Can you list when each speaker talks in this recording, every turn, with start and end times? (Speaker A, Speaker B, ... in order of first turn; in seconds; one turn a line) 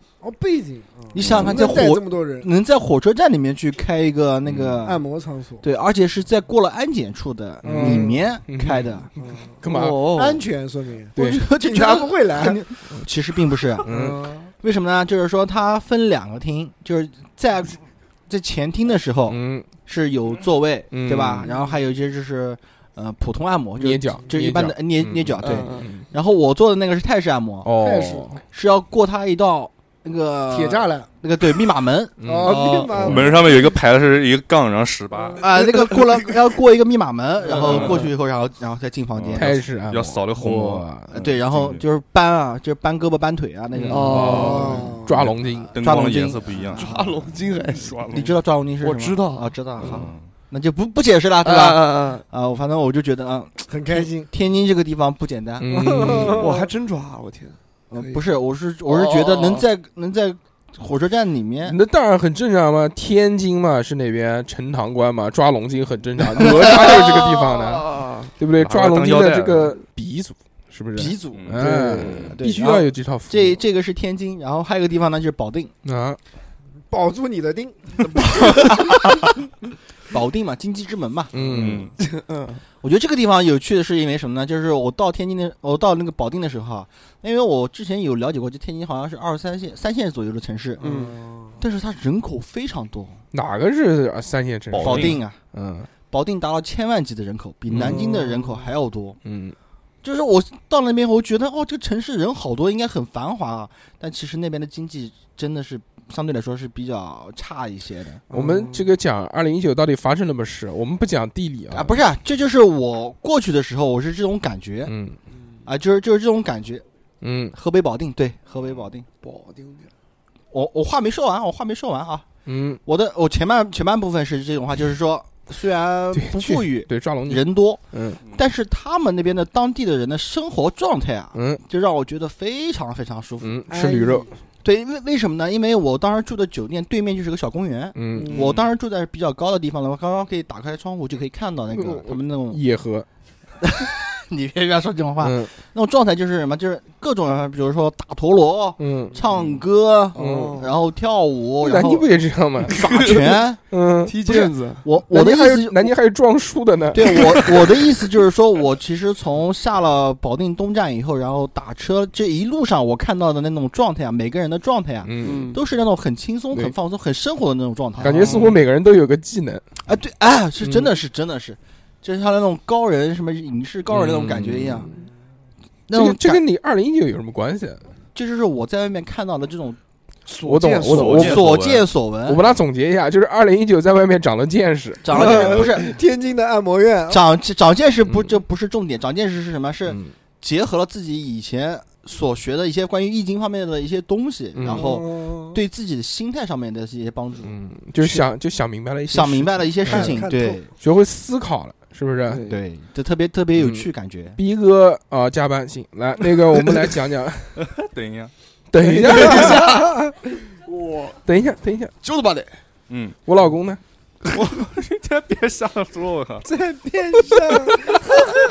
Speaker A: 0.2-2.5
Speaker B: 1.1-5.0
Speaker C: 1.2-1.5
Speaker A: 4.8-5.6
Speaker B: 5.6-9.1
Speaker D: 7.6-9.1
Speaker A: 7.7-8.2
Speaker A: 9.2-9.6
Speaker D: 9.6-10.0
Speaker E: 9.7-10.4
Speaker A: 10.1-12.6
Speaker B: 11.2-13.9
Speaker D: 13.8-14.2
Speaker A: 13.8-14.5
Speaker B: 14.6-27.7
Speaker D: 19.3-19.7
Speaker D: 20.9-21.5
Speaker D: 23.8-26.0
Speaker E: 25.4-25.9
Speaker D: 27.6-28.4
Speaker A: 27.8-28.4
Speaker B: 28.5-33.3
Speaker A: 30.5-31.1
Speaker D: 32.2-33.2
Speaker A: 32.2-33.8
Speaker C: 32.9-35.4
Speaker B: 35.4-39.6
Speaker E: 37.6-38.1
Speaker C: 37.6-37.9
Speaker C: 39.1-41.8
Speaker D: 39.3-41.1
Speaker B: 41.1-44.7
Speaker E: 43.9-45.0
Speaker D: 43.9-46.3
Speaker A: 44.2-45.1
Speaker C: 45.7-46.9
Speaker B: 45.7-47.1
Speaker E: 46.8-48.0
Speaker C: 47.8-48.4
Speaker B: 48.1-56.4
Speaker E: 48.8-50.0
Speaker C: 49.9-50.3
Speaker E: 51.4-52.2
Speaker A: 53.7-54.3
Speaker D: 55.6-56.4
Speaker A: 55.7-56.5
Speaker E: 56.3-58.2
Speaker B: 57.9-61.8
Speaker E: 58.9-59.7
Speaker D: 61.6-67.8
Speaker B: 66.4-66.8
Speaker E: 66.4-68.3
Speaker D: 68.4-73.6
Speaker C: 68.6-69.8
Speaker B: 70.9-75.7
Speaker C: 71.3-72.4
Speaker D: 75.8-76.2
Speaker A: 76.9-78.1
Speaker B: 78.1-79.3
Speaker B: 80.1-81.8
Speaker D: 81.3-81.9
Speaker C: 81.4-81.9
Speaker E: 82.0-82.6
Speaker B: 82.8-90.8
Speaker A: 90.8-91.6
Speaker E: 90.8-91.2
Speaker B: 91.6-93.2
Speaker D: 93.3-95.9
Speaker C: 94.7-95.2
Speaker B: 94.8-95.4
Speaker B: 96.1-99.2
Speaker D: 97.7-98.0
Speaker A: 97.8-98.6
Speaker D: 99.2-99.5
Speaker B: 100.0-108.2
Speaker D: 108.3-112.0
Speaker A: 108.3-108.8
Speaker B: 111.7-114.9
Speaker D: 114.8-115.2
Speaker B: 115.7-116.8
Speaker D: 117.2-117.5
Speaker B: 117.5-119.0
Speaker C: 118.6-118.8
Speaker E: 119.2-119.9
Speaker B: 120.5-122.2
Speaker D: 122.5-122.8
Speaker B: 122.8-133.6
Speaker D: 126.1-128.2
Speaker D: 131.3-131.6
Speaker D: 133.4-134.3
Speaker A: 133.7-134.3
Speaker B: 134.6-142.6
Speaker D: 137.9-138.4
Speaker A: 138.2-138.5
Speaker C: 138.3-138.7
Speaker D: 141.7-143.1
Speaker B: 143.6-152.1
Speaker D: 145.2-145.5
Speaker D: 148.8-149.2
Speaker C: 149.3-149.6
Speaker D: 150.1-150.6
Speaker E: 150.1-150.7
Speaker D: 151.6-152.8
Speaker B: 152.7-153.6
Speaker E: 152.7-153.4
Speaker D: 153.7-154.2
Speaker E: 154.0-154.8
Speaker B: 154.2-155.9
Speaker D: 155.1-157.6
Speaker B: 156.9-168.5
Speaker D: 165.0-165.5
Speaker E: 165.2-165.6
Speaker E: 167.9-168.6
Speaker D: 168.0-169.7
Speaker B: 169.8-174.9
Speaker D: 170.6-170.9
Speaker D: 173.9-174.9
Speaker B: 175.9-176.4
Speaker D: 175.9-177.9
Speaker B: 178.1-179.8
Speaker E: 180.3-181.4
Speaker D: 180.4-181.5
Speaker C: 180.9-181.9
Speaker B: 181.2-182.4
Speaker D: 182.2-185.6
Speaker B: 185.0-185.9
Speaker A: 185.1-187.2
Speaker B: 187.1-197.5
Speaker D: 188.1-188.4
Speaker D: 189.9-190.1
Speaker D: 194.5-194.9
Speaker A: 194.7-195.6
Speaker D: 197.4-200.2
Speaker B: 199.1-200.7
Speaker A: 199.8-200.6
Speaker D: 200.8-202.4
Speaker E: 202.3-202.6
Speaker B: 202.4-204.4
Speaker D: 203.5-203.8
Speaker D: 204.4-207.6
Speaker C: 207.6-208.3
Speaker D: 208.7-209.9
Speaker E: 208.9-209.9
Speaker A: 209.3-209.8
Speaker E: 210.6-211.2
Speaker D: 211.2-211.9
Speaker E: 212.0-212.5
Speaker C: 212.9-213.2
Speaker D: 213.2-213.8
Speaker C: 214.3-216.5
Speaker A: 216.4-217.9